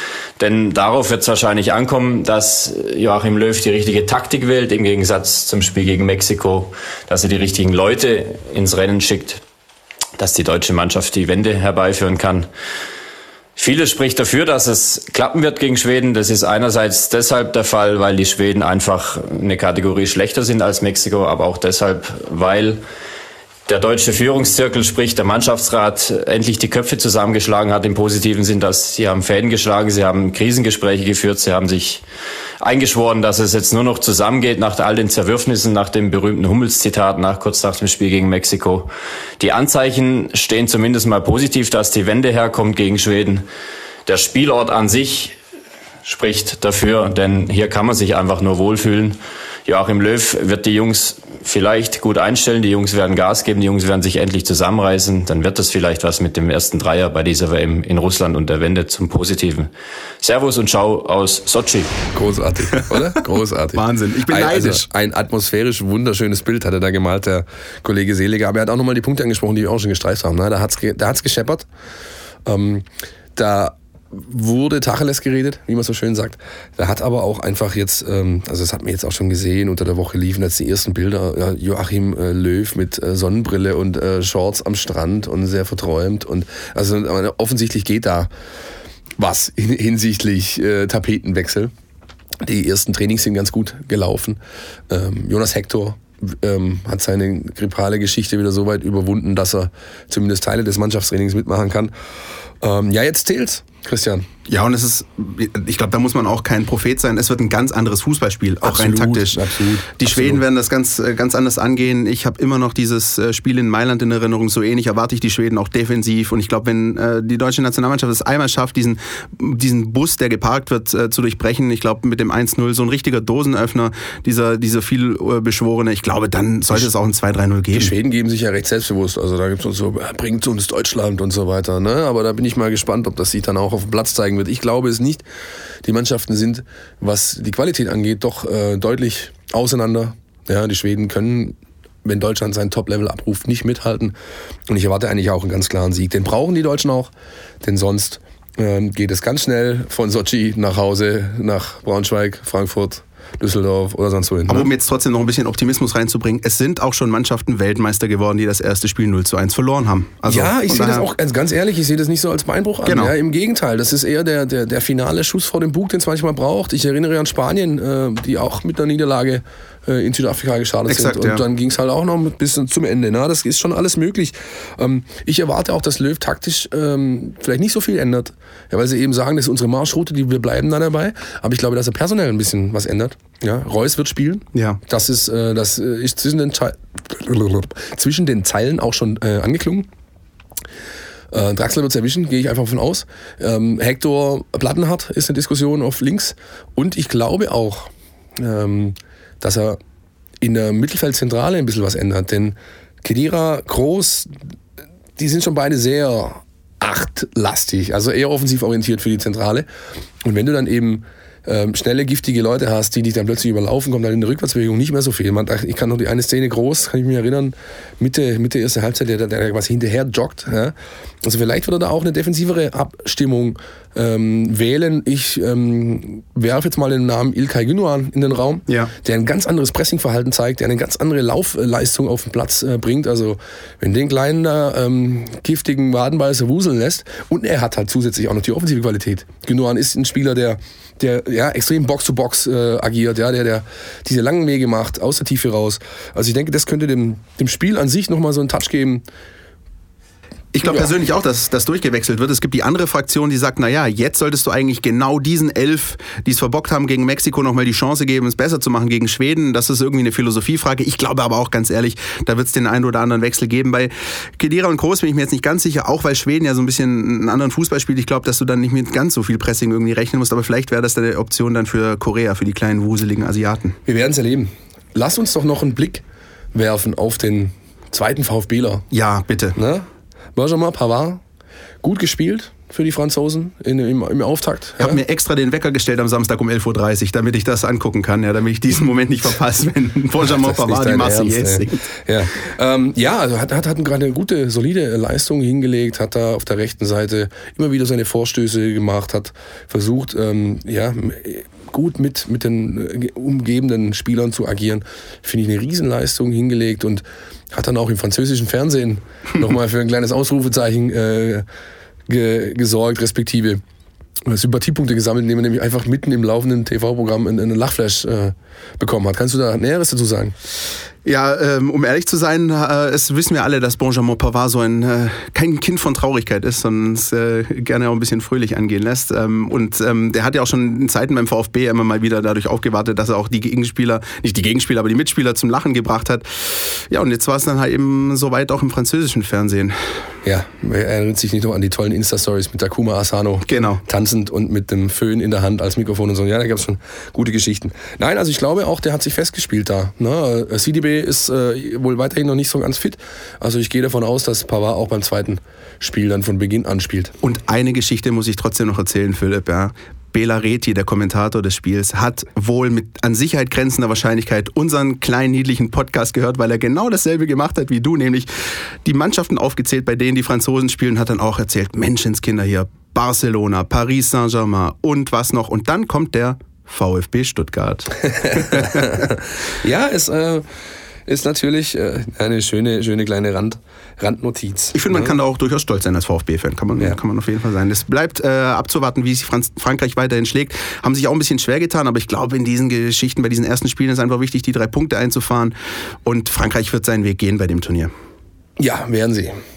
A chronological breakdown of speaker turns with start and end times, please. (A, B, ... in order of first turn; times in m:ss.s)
0:00.4-0:09.4 A
0:10.2-0:12.5 A
0:13.6-0:22.8 A
0:23.7-0:32.0 A
0:32.6-0:43.4 A
0:44.1-0:45.4 A
0:46.0-0:59.7 A
1:00.2-1:01.9 A
1:02.1-1:11.7 B
1:03.8-1:04.8 C
1:12.4-1:28.3 B
1:29.2-1:31.7 B
1:32.4-1:41.9 B
1:42.6-1:44.3 B
1:44.5-1:49.4 C
1:48.6-1:50.4 B
1:50.0-2:07.9 C
2:07.7-2:15.2 B
2:15.8-2:24.1 B
2:24.7-2:34.7 B
2:34.5-2:41.1 C
2:40.3-3:09.9 B
2:42.9-2:43.1 C
2:50.9-2:51.4 C
3:04.5-3:04.8 C
3:11.3-3:19.8 B
3:20.4-3:24.3 B
3:25.2-3:29.7 B
3:30.2-4:09.0 B
4:10.5-4:33.8 C
4:10.6-4:10.9 B
4:33.8-4:38.9 B
4:38.9-4:39.6 C
4:39.6-4:41.2 B
4:41.8-4:45.0 B
4:44.8-4:51.8 C
4:50.3-5:11.4 B
5:12.1-5:13.6 B
5:14.3-5:20.4 B
5:21.0-5:40.0 C
5:40.2-5:57.2 B
5:43.5-5:43.8 C
5:57.2-6:08.3 C
6:08.8-6:19.1 C
6:18.1-6:20.4 B
6:21.1-6:25.2 B
6:24.7-6:37.9 C
6:38.6-6:39.4 B